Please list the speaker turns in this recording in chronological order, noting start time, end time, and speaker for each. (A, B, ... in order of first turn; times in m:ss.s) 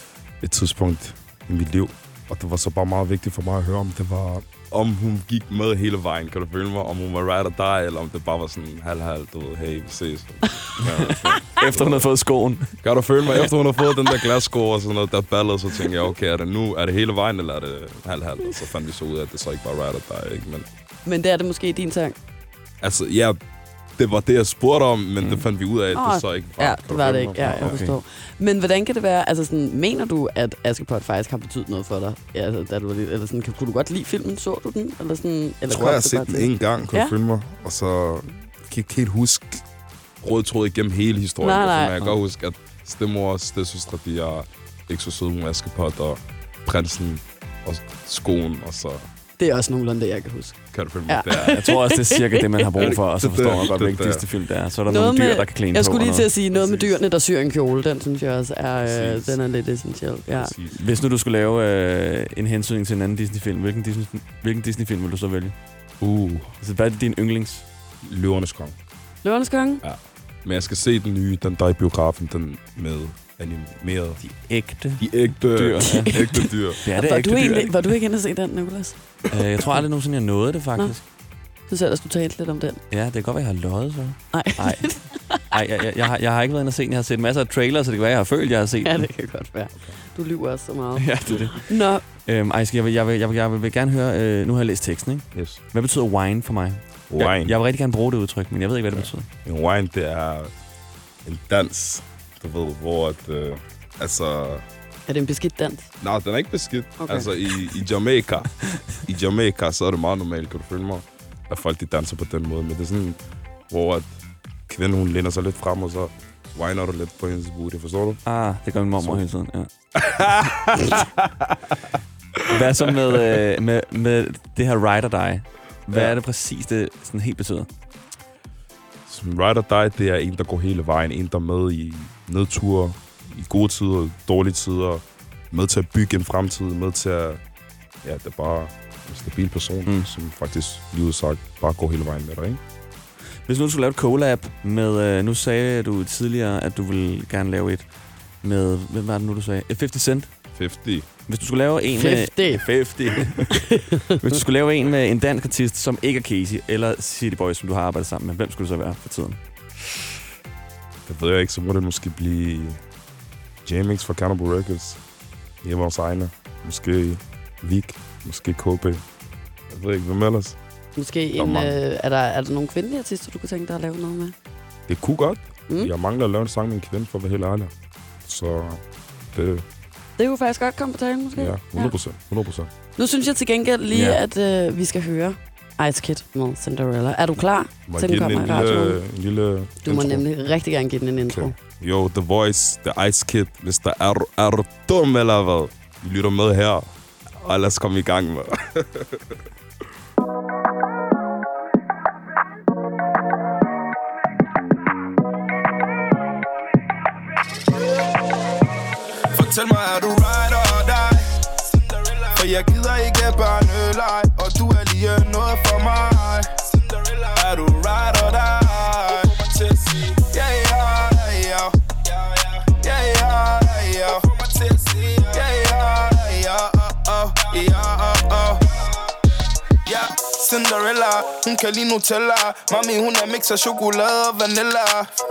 0:00.4-0:12.1 A
0:10.8-0:12.8 B
0:12.8-0:20.7 A
0:21.0-0:22.2 C
0:22.8-0:23.4 A
0:24.0-0:27.8 A
0:25.9-0:37.2 C
0:27.4-0:28.0 B
0:35.7-0:39.6 A
0:40.2-0:49.0 A
0:41.4-0:42.2 C
0:49.4-0:52.9 C
0:50.7-0:51.7 A
0:51.4-0:56.3 B
0:52.8-0:54.3 A
0:54.9-1:00.5 C
0:56.5-0:57.0 A
0:58.8-0:59.4 A
1:00.3-1:00.8 A
1:00.8-1:05.6 B
1:06.0-1:06.5 A
1:06.6-1:07.6 B
1:08.0-1:08.8 A
1:09.2-1:09.8 C
1:09.8-1:14.2 A
1:14.2-1:17.8 B
1:15.0-1:16.8 A
1:15.8-1:19.0 C
1:19.3-1:21.0 B
1:21.7-1:22.8 C
1:22.9-1:29.1 B
1:24.3-1:25.5 C
1:28.8-1:32.0 C
1:31.0-1:31.7 B
1:32.3-1:39.3 B
1:35.3-1:35.6 A
1:37.1-1:37.6 A
1:38.9-1:40.5 A
1:41.2-1:44.6 A
1:45.1-1:45.9 C
1:46.0-1:48.5 A
1:47.0-1:47.3 C
1:49.0-1:58.2 A
1:58.2-1:59.7 B
1:59.0-1:59.3 A
2:00.0-2:01.5 A
2:02.5-2:07.7 B
2:09.1-2:17.4 A
2:18.0-2:22.6 A
2:23.5-2:27.8 B
2:28.4-2:30.3 B
2:30.6-2:31.1 A
2:31.3-2:39.4 B
2:31.9-2:32.6 C
2:33.5-2:34.1 C
2:41.1-2:42.8 A
2:43.6-2:45.0 A
2:45.6-2:49.0 A
2:49.7-2:50.6 A
2:51.0-2:54.4 C
2:51.4-2:51.8 A
2:54.9-2:57.7 A
2:58.3-2:58.8 A
2:59.3-2:59.6 A
3:00.2-3:02.0 C
3:01.4-3:02.7 A
3:03.0-3:09.0 C
3:03.9-3:04.2 B
3:07.9-3:10.2 A
3:09.8-3:11.5 C
3:11.2-3:19.4 A
3:27.8-3:28.2 D
3:29.3-3:49.2 D
3:49.9-3:55.1 D